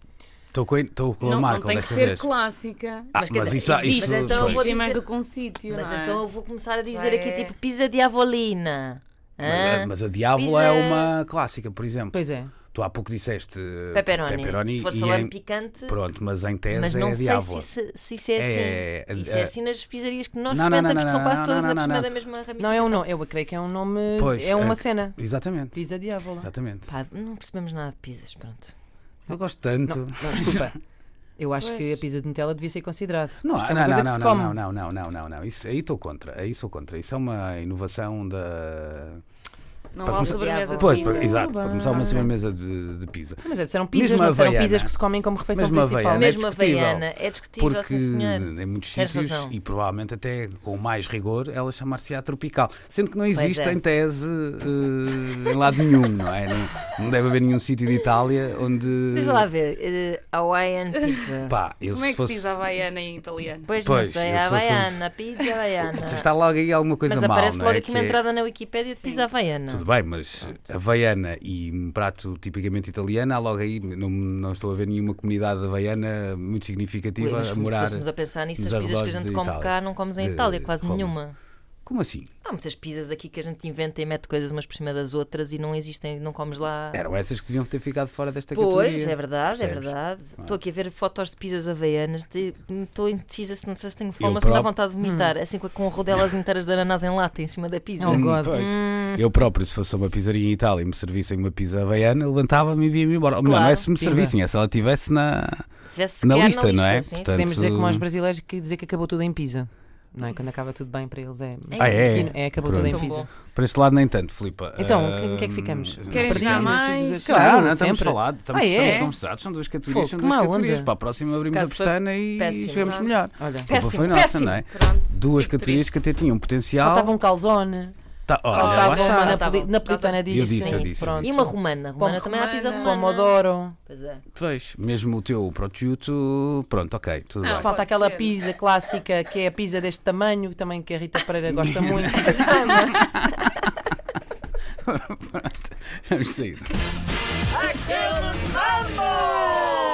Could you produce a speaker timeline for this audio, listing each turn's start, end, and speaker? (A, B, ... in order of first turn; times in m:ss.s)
0:00.5-0:02.3 A
0:01.2-0:06.2 B
0:03.1-0:04.7 A
0:03.3-0:05.0 C
0:05.7-0:11.1 C
0:06.9-0:07.5 B
0:09.4-0:12.2 A
0:12.1-0:12.5 D
0:12.7-0:15.3 A
0:13.9-0:16.0 C
0:15.8-0:17.7 A
0:16.7-0:23.1 C
0:18.4-0:19.5 A
0:20.5-0:22.1 A
0:22.6-0:26.5 D
0:24.2-0:25.8 A
0:26.4-0:26.9 A
0:26.9-0:28.7 C
0:29.3-0:30.7 A
0:29.8-0:30.8 D
0:31.4-0:34.6 D
0:31.6-0:32.0 B
0:33.4-0:39.2 A
0:39.9-0:41.4 B
0:40.0-0:44.9 A
0:40.0-0:41.2 C
0:41.0-0:42.3 D
0:43.4-0:46.4 D
0:45.5-0:59.5 A
0:46.1-0:49.5 C
0:53.3-0:53.8 C
0:59.1-1:01.6 C
1:01.4-1:02.6 A
1:01.9-1:03.7 B
1:03.6-1:06.3 C
1:03.8-1:05.0 A
1:05.9-1:08.2 A
1:07.0-1:09.9 C
1:09.0-1:09.3 B
1:09.7-1:18.0 A
1:17.2-1:21.4 C
1:18.6-1:21.2 A
1:21.8-1:22.3 A
1:22.4-1:27.0 C
1:26.9-1:30.6 A
1:28.5-1:39.3 C
1:34.2-1:34.7 A
1:35.0-1:35.3 D
1:38.0-1:38.7 D
1:38.1-1:45.7 A
1:43.4-1:43.9 C
1:44.0-1:44.4 D
1:45.8-1:47.6 C
1:46.2-1:48.0 A
1:47.3-1:53.2 D
1:51.7-1:53.3 C
1:51.8-2:07.2 A
1:54.8-1:59.1 D
1:56.1-1:57.6 B
1:58.8-1:59.1 B
1:59.9-2:00.9 D
2:01.5-2:04.6 C
2:02.8-2:03.2 B
2:03.4-2:03.7 D
2:04.4-2:05.9 B
2:06.8-2:07.9 D
2:08.3-2:09.4 A
2:08.5-2:13.7 D
2:08.5-2:10.0 B
2:08.8-2:14.2 C
2:10.3-2:11.4 A
2:12.2-2:13.0 B
2:14.4-2:17.7 A
2:17.4-2:18.4 B
2:17.5-2:22.8 D
2:21.5-2:23.6 A
2:22.2-2:23.1 C
2:24.8-2:26.7 A